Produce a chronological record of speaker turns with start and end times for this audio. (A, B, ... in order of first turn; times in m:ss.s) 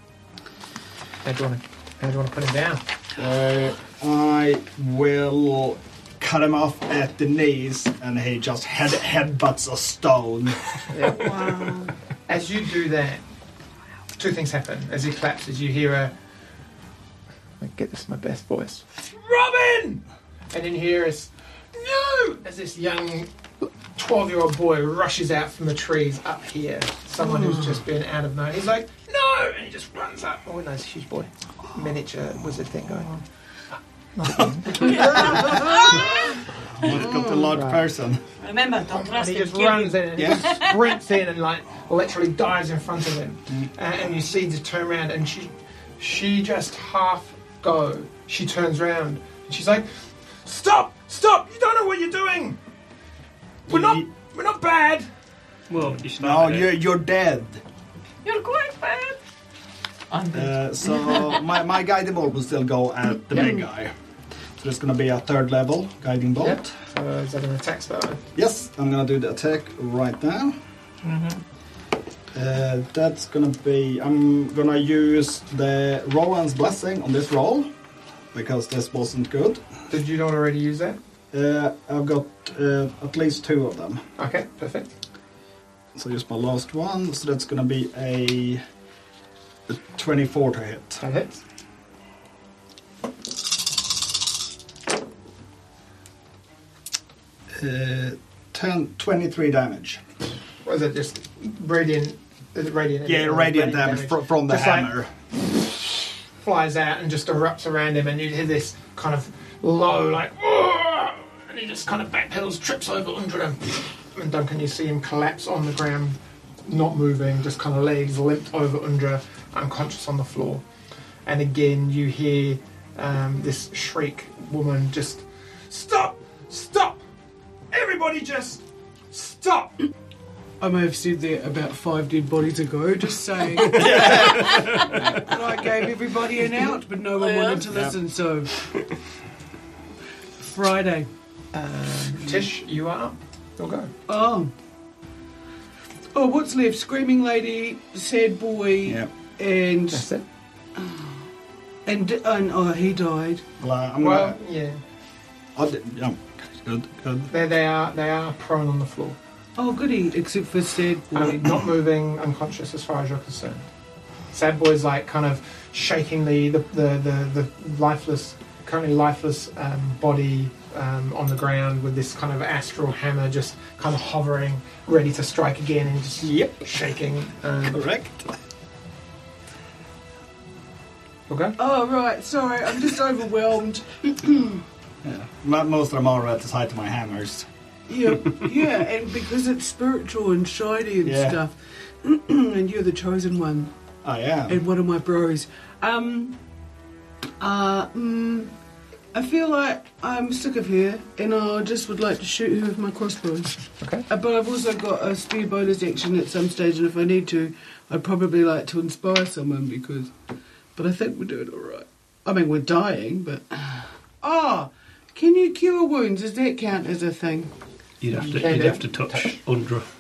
0:01.2-0:02.8 A
0:03.2-0:10.6 B
0:10.9-0:11.6 A
0:11.1-0:11.9 C
0:12.3-0:13.2 A
0:14.2-0:16.1 A
0:17.6-0:33.2 A
0:27.2-0:27.7 C
0:34.1-0:35.5 A
0:34.3-0:36.1 B
0:36.6-0:38.2 B
0:37.5-0:37.8 A
0:38.4-0:40.7 D
0:39.0-0:49.9 A
0:40.2-0:40.6 B
0:50.4-0:52.6 A
0:53.7-0:55.1 A
0:53.7-0:54.1 B
0:55.7-0:56.7 E
0:56.1-0:57.6 B
0:58.2-0:59.2 D
1:00.1-1:01.4 D
1:00.3-1:03.9 B
1:04.6-1:06.7 B
1:06.4-1:08.2 A
1:08.4-1:10.6 B
1:11.0-1:11.4 D
1:12.3-1:17.7 B
1:18.3-1:19.6 B
1:19.9-1:21.0 A
1:21.3-1:24.0 B
1:24.2-1:24.9 A
1:25.9-1:28.6 B
1:29.7-1:31.0 B
1:31.0-1:31.4 A
1:37.5-1:40.0 B
1:40.6-1:44.9 A
1:43.0-1:45.1 B
1:46.4-2:00.6 A
2:01.3-2:07.0 A
2:07.7-2:09.8 A
2:10.6-2:18.5 C
2:13.7-2:14.9 B
2:14.5-2:15.0 E
2:17.2-2:17.6 D
2:17.7-2:18.0 B
2:20.4-2:21.1 C
2:21.5-2:23.9 A
2:24.1-2:24.5 C
2:26.1-2:30.1 C
2:28.8-2:29.1 B
2:29.9-2:30.2 A
2:30.8-2:31.1 C
2:31.9-2:33.4 C
2:33.6-2:34.4 B
2:34.0-2:34.8 A
2:35.6-2:37.3 B
2:37.3-2:39.2 A
2:39.6-2:41.6 C
2:41.1-2:43.7 A
2:44.3-2:57.8 A
2:56.2-2:56.7 B
2:57.7-2:58.3 B
3:01.3-3:01.6 A
3:01.6-3:04.6 C
3:05.0-3:07.5 B
3:07.9-3:13.7 C
3:11.0-3:11.4 B
3:14.0-3:14.6 B
3:14.5-3:16.4 C
3:17.4-3:18.5 C
3:19.1-3:23.6 C
3:23.8-3:24.1 A
3:24.1-3:30.1 C
3:30.8-3:37.5 C
3:38.0-3:39.9 E
3:38.2-3:39.4 A